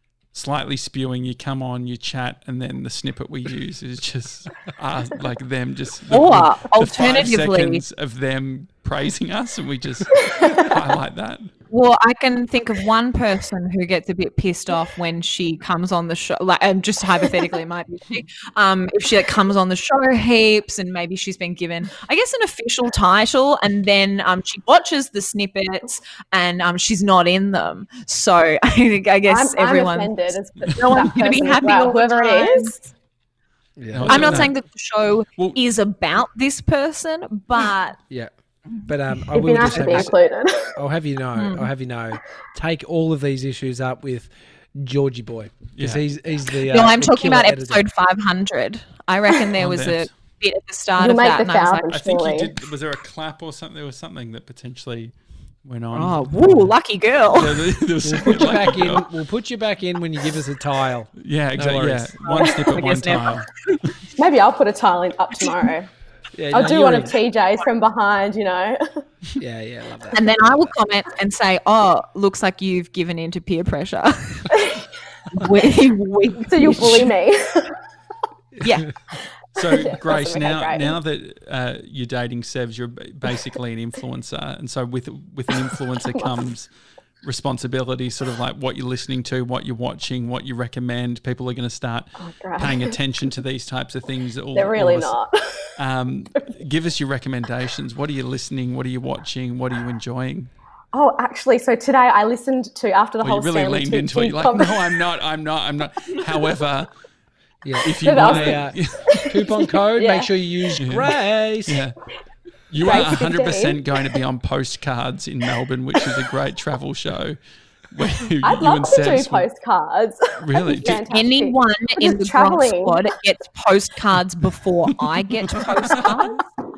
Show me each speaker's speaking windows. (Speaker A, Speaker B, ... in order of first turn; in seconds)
Speaker A: 0.3-11.5, 33.9-34.5, 45.8-46.0, 49.6-50.1, 51.9-55.1, 55.6-56.7, 57.3-59.1, 61.2-63.5, 79.5-86.7, 87.2-95.1, 95.8-100.5, 103.2-106.9, 107.8-109.3, 110.8-111.1, 111.7-112.0, 112.7-117.4, 117.9-119.5, 120.4-121.0, 125.5-126.1
Speaker B: 6.1-7.8, 11.7-32.8, 34.1-38.0, 39.7-40.0, 41.4-41.7, 46.7-51.9, 55.9-57.6, 62.2-63.8, 70.1-74.6, 75.3-77.1, 78.6-78.9, 121.1-126.4
Speaker C: 10.2-10.7, 29.3-32.8, 39.3-40.8, 51.0-52.5, 64.2-65.9, 66.5-69.0, 74.5-74.8, 76.5-77.8, 79.6-81.0, 92.2-92.9, 94.5-95.7, 100.9-105.0, 108.0-110.3, 112.8-113.9, 118.4-123.0
Speaker D: 33.8-34.5, 38.8-40.1, 40.8-47.8, 58.0-62.2, 66.3-67.2, 69.4-70.2, 78.6-78.8, 107.6-111.8